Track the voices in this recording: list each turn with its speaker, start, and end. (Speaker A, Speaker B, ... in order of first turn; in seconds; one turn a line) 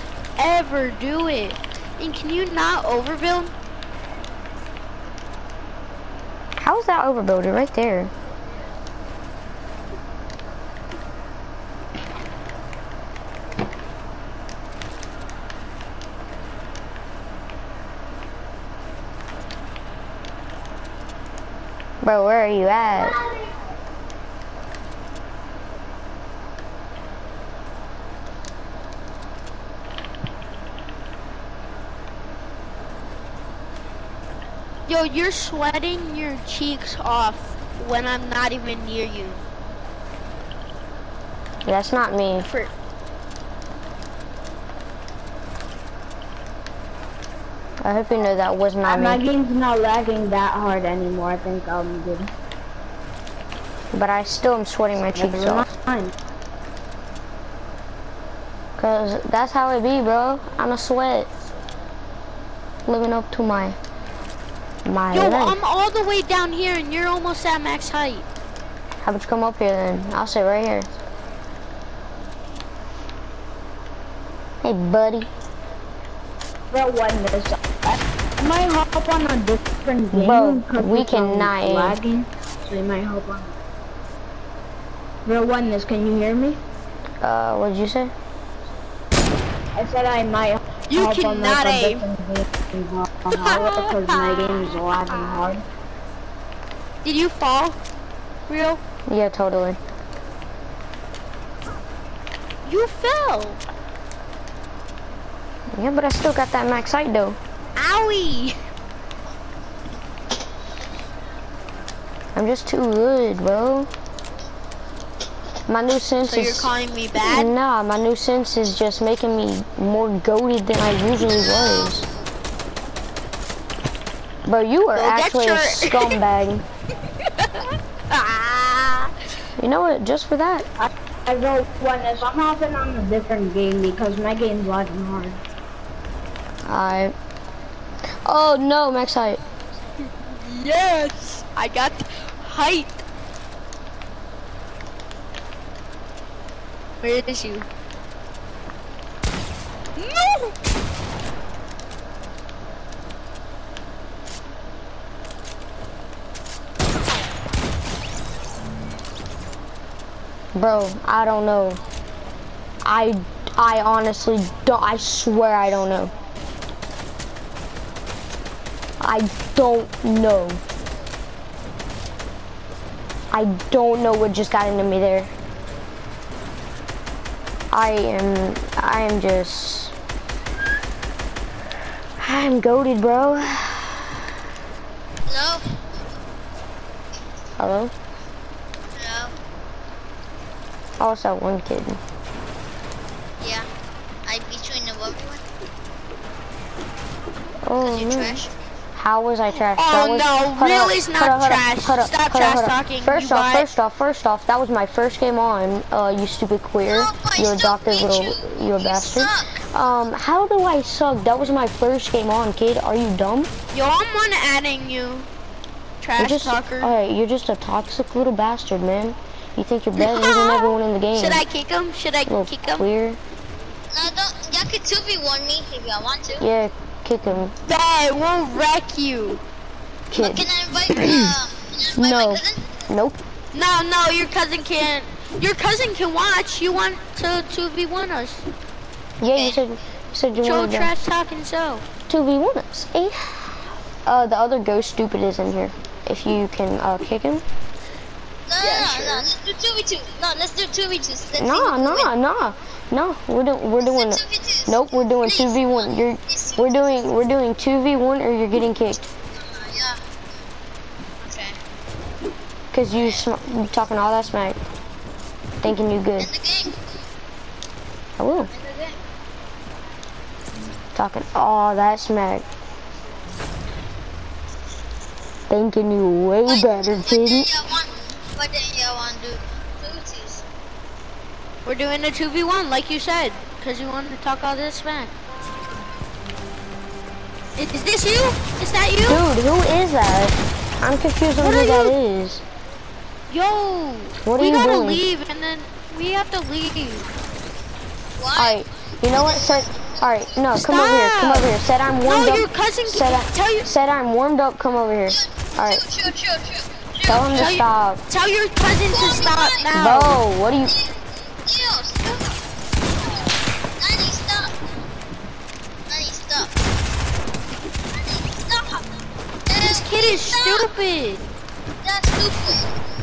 Speaker A: 0.4-3.5
Speaker B: 6.6-8.1
Speaker B: 22.0-23.2
Speaker A: 34.9-39.4
Speaker B: 41.6-42.5
Speaker A: 42.4-42.7
Speaker B: 47.8-49.2
Speaker C: 48.9-52.3
Speaker B: 53.9-55.7
Speaker C: 55.1-56.1
Speaker B: 58.8-61.3
Speaker B: 62.9-63.8
Speaker B: 64.8-65.6
Speaker A: 65.1-68.3
Speaker B: 69.0-70.9
Speaker B: 74.6-75.3
Speaker C: 76.7-83.6
Speaker B: 80.1-82.0
Speaker C: 85.3-86.6
Speaker B: 87.2-88.1
Speaker C: 89.8-95.6
Speaker A: 90.9-92.0
Speaker A: 93.4-95.2
Speaker A: 97.0-97.8
Speaker A: 98.5-98.8
Speaker B: 99.1-99.8
Speaker A: 102.7-103.6
Speaker B: 105.7-107.4
Speaker A: 107.8-108.6
Speaker B: 112.3-113.9
Speaker B: 115.7-116.7
Speaker A: 116.2-117.5
Speaker B: 117.2-122.1
Speaker D: 121.2-122.1
Speaker B: 124.5-126.6
Speaker A: 124.9-126.2
Speaker A: 127.2-129.1
Speaker B: 129.6-130.7
Speaker C: 130.8-135.4
Speaker B: 136.7-137.2
Speaker B: 138.2-139.4
Speaker A: 140.0-143.0
Speaker A: 147.0-147.7
Speaker A: 150.0-150.5
Speaker B: 160.6-161.8
Speaker B: 162.8-166.1
Speaker B: 169.0-170.6
Speaker B: 173.3-175.3
Speaker B: 177.7-179.9
Speaker B: 182.2-184.2
Speaker D: 185.3-185.7
Speaker B: 187.6-187.9
Speaker D: 188.9-189.3
Speaker B: 191.0-192.0
Speaker D: 193.4-193.7
Speaker D: 194.3-195.4
Speaker B: 197.6-213.5
Speaker D: 197.8-198.5
Speaker A: 199.7-203.7
Speaker D: 206.9-209.6
Speaker A: 213.7-215.3
Speaker A: 216.0-216.9
Speaker B: 216.2-221.4
Speaker A: 220.0-222.9
Speaker B: 222.3-223.2
Speaker D: 223.9-226.4
Speaker B: 226.4-227.5
Speaker A: 227.7-229.4
Speaker B: 230.1-230.5
Speaker D: 230.2-232.8
Speaker B: 231.9-233.2
Speaker A: 233.5-238.5
Speaker B: 239.2-240.9
Speaker D: 239.3-239.6
Speaker A: 240.4-241.9
Speaker B: 242.1-247.4
Speaker D: 248.5-252.1
Speaker A: 248.6-249.3
Speaker B: 251.4-259.0
Speaker D: 253.8-257.1
Speaker D: 259.3-260.0
Speaker D: 261.2-261.6
Speaker B: 262.7-264.6
Speaker D: 262.9-263.2
Speaker B: 265.6-266.3
Speaker D: 266.2-266.8
Speaker B: 268.2-268.5
Speaker D: 268.5-269.0
Speaker B: 270.9-272.4
Speaker B: 275.5-277.5
Speaker D: 276.5-280.4
Speaker A: 281.6-285.1
Speaker A: 287.6-289.2
Speaker B: 289.1-292.4
Speaker A: 291.4-291.9
Speaker A: 293.3-297.1
Speaker B: 294.2-295.0
Speaker D: 298.2-300.4
Speaker B: 298.4-305.8
Speaker A: 300.6-301.5
Speaker A: 302.1-303.7
Speaker D: 305.1-307.6
Speaker B: 307.1-308.0
Speaker A: 307.3-310.2
Speaker D: 308.9-309.7
Speaker B: 309.7-310.7
Speaker D: 310.6-312.3
Speaker D: 312.9-314.7
Speaker D: 315.9-316.5
Speaker D: 317.9-320.7
Speaker A: 319.6-321.2
Speaker D: 321.8-322.7